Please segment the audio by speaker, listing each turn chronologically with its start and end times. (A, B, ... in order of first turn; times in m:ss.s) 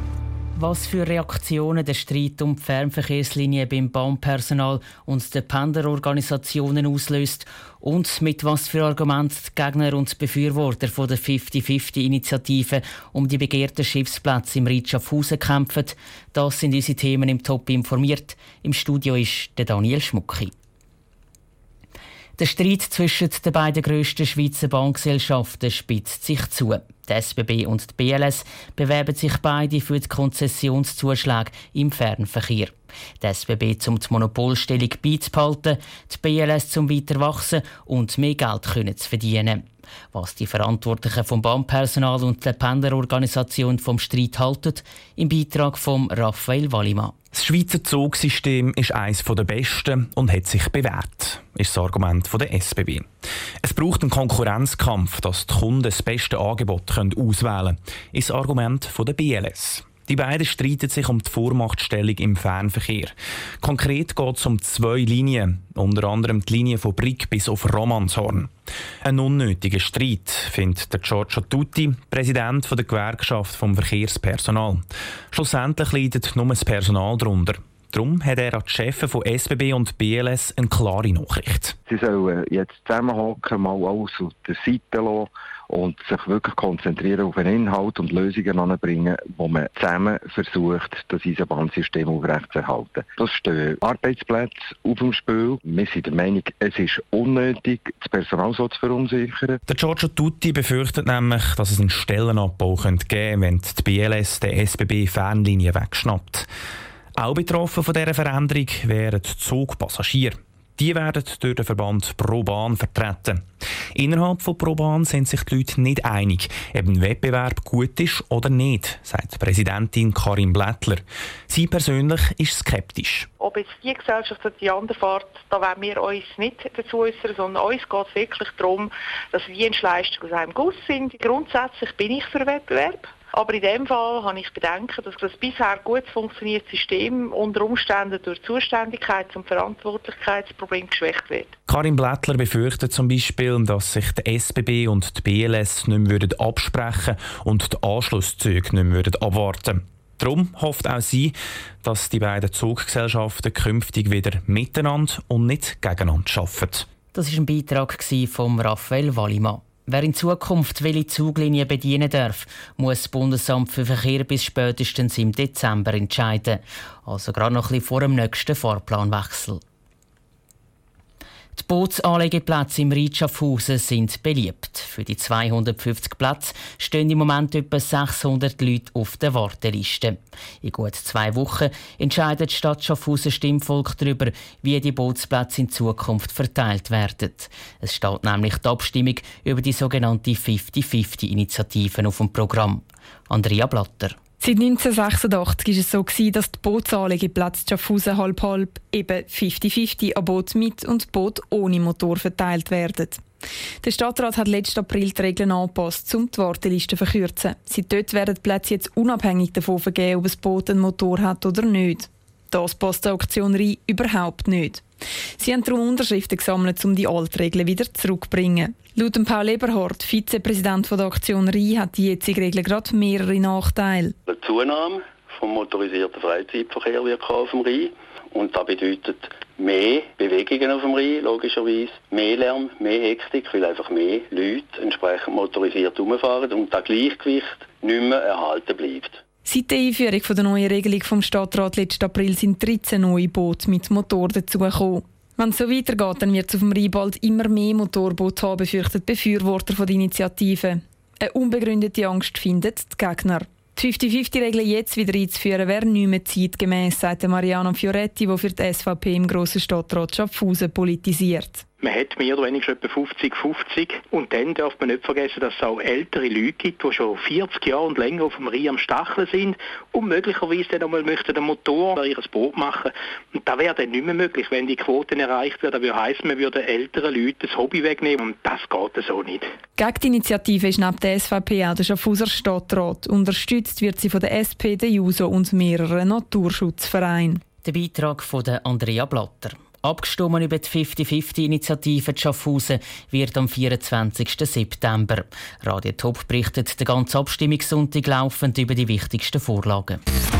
0:00.6-0:20.5 A
0:22.4-0:47.1 A
0:47.3-0:53.0 B
0:53.6-1:08.5 B
1:09.0-1:21.8 B
1:21.9-1:39.6 C
1:39.7-1:46.5 B
1:47.2-1:53.4 B
1:53.9-2:03.3 B
2:03.4-2:21.5 D
2:21.7-2:36.9 B
2:37.1-2:49.6 A
2:51.5-3:14.2 A
3:14.4-3:23.2 E
3:23.8-3:34.8 E
3:35.4-3:44.1 E
3:44.3-3:59.2 F
3:59.4-4:21.6 E
4:21.8-4:39.5 G
4:39.8-4:47.4 E
4:47.6-5:00.0 A